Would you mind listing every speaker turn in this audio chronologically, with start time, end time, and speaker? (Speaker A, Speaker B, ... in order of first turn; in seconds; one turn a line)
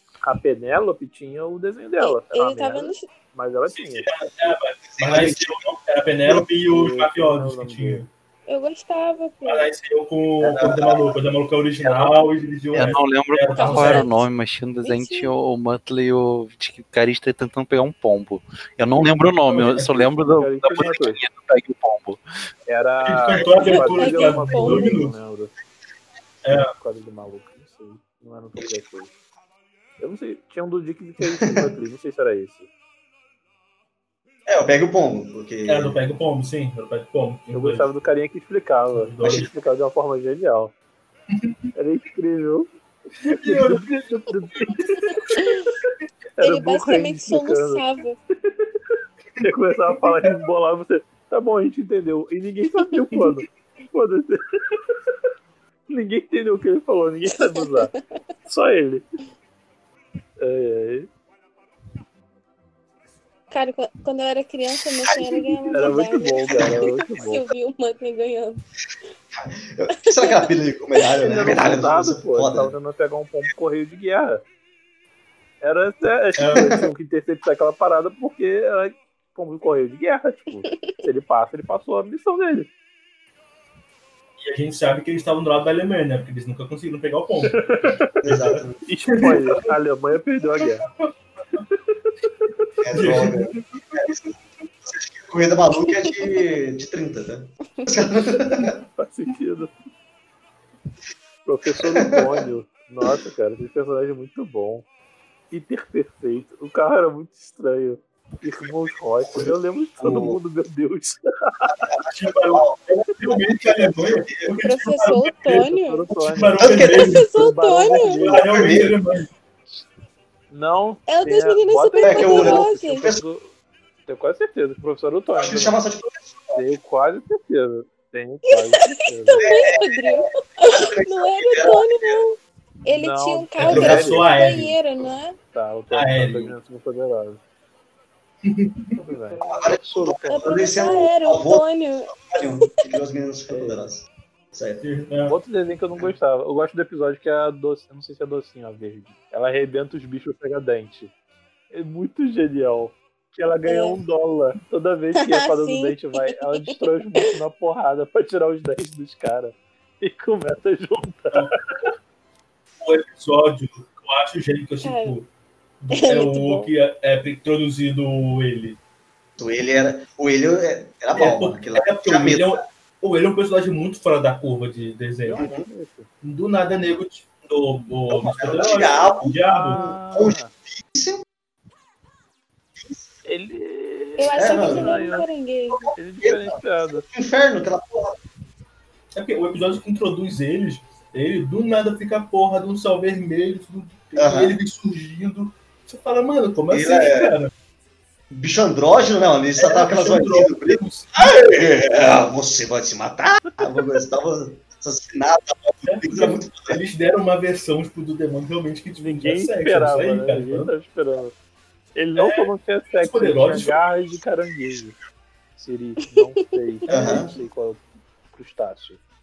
Speaker A: 0.2-4.1
Speaker B: 2.0-3.1
Speaker C: 3.7-8.1
Speaker D: 4.9-5.5
Speaker A: 6.7-8.1
Speaker B: 8.5-9.7
Speaker C: 9.4-14.1
Speaker D: 10.4-11.2
Speaker D: 11.8-12.2
Speaker E: 12.7-22.2
Speaker B: 13.5-14.3
Speaker B: 14.8-15.3
Speaker C: 19.5-20.1
Speaker A: 20.3-21.2
Speaker A: 22.6-25.5
Speaker C: 23.0-25.1
Speaker B: 23.4-25.0
Speaker C: 26.4-26.7
Speaker A: 26.7-29.1
Speaker D: 28.6-28.9
Speaker A: 30.0-32.7
Speaker D: 31.2-31.7
Speaker D: 34.5-36.0
Speaker C: 35.7-37.9
Speaker A: 37.5-40.7
Speaker C: 38.9-39.5
Speaker D: 39.2-39.5
Speaker C: 41.3-41.7
Speaker A: 41.7-42.7
Speaker C: 43.2-43.9
Speaker A: 43.4-47.9
Speaker B: 45.0-45.7
Speaker B: 46.4-48.2
Speaker A: 49.4-54.9
Speaker C: 50.0-50.3
Speaker A: 55.9-57.9
Speaker B: 57.3-58.0
Speaker A: 58.5-59.0
Speaker A: 60.4-61.1
Speaker B: 63.5-68.6
Speaker D: 65.0-65.7
Speaker A: 65.7-67.5
Speaker D: 66.5-66.8
Speaker D: 69.3-72.7
Speaker B: 70.1-70.5
Speaker A: 71.2-74.4
Speaker A: 75.6-82.7
Speaker C: 76.4-76.8
Speaker B: 80.6-81.0
Speaker C: 84.4-88.6
Speaker A: 87.5-88.1
Speaker D: 88.2-88.8
Speaker A: 88.8-90.8
Speaker C: 89.2-89.5
Speaker C: 90.6-91.6
Speaker D: 92.8-98.7
Speaker C: 92.9-93.9
Speaker B: 95.7-96.4
Speaker A: 99.0-99.7
Speaker A: 101.4-104.8
Speaker D: 101.9-102.5
Speaker A: 105.5-111.9
Speaker D: 109.2-110.4
Speaker D: 111.8-114.5
Speaker C: 112.1-117.3
Speaker B: 114.6-116.0
Speaker A: 115.6-118.7
Speaker D: 116.6-117.0
Speaker B: 116.7-118.3
Speaker C: 118.2-119.3
Speaker D: 118.3-119.0
Speaker A: 120.5-123.5
Speaker B: 121.1-123.1
Speaker D: 122.0-123.2
Speaker A: 124.1-125.8
Speaker D: 125.4-126.8
Speaker A: 126.5-129.7
Speaker B: 128.5-135.4
Speaker D: 129.3-132.2
Speaker A: 132.9-134.3
Speaker C: 133.6-134.8
Speaker A: 135.5-137.4
Speaker C: 135.9-136.5
Speaker C: 138.4-139.0
Speaker A: 138.9-141.0
Speaker D: 139.4-144.8
Speaker B: 140.3-142.7
Speaker A: 143.5-143.9
Speaker C: 144.8-145.3
Speaker A: 145.3-151.1
Speaker A: 151.7-161.9
Speaker B: 153.7-154.0
Speaker B: 155.2-157.3
Speaker C: 162.8-165.3
Speaker B: 164.8-165.2
Speaker C: 165.8-168.8
Speaker B: 165.9-166.6
Speaker A: 166.3-166.7
Speaker D: 169.4-172.6
Speaker C: 171.1-175.4
Speaker A: 175.2-176.1
Speaker D: 175.4-175.7
Speaker C: 176.2-179.8
Speaker D: 178.1-181.2
Speaker A: 179.4-180.5
Speaker D: 182.8-183.1
Speaker A: 183.2-185.3
Speaker B: 184.2-185.9
Speaker D: 184.3-185.1
Speaker D: 185.7-188.2
Speaker A: 185.9-187.1
Speaker C: 189.1-197.5
Speaker D: 194.2-194.6
Speaker D: 196.7-197.3
Speaker D: 198.3-206.8
Speaker C: 199.6-201.5
Speaker A: 203.5-203.8
Speaker C: 205.8-210.7
Speaker A: 209.0-211.3
Speaker A: 211.9-215.0
Speaker C: 212.2-213.8
Speaker A: 215.6-219.0
Speaker B: 216.1-216.8
Speaker D: 216.9-217.3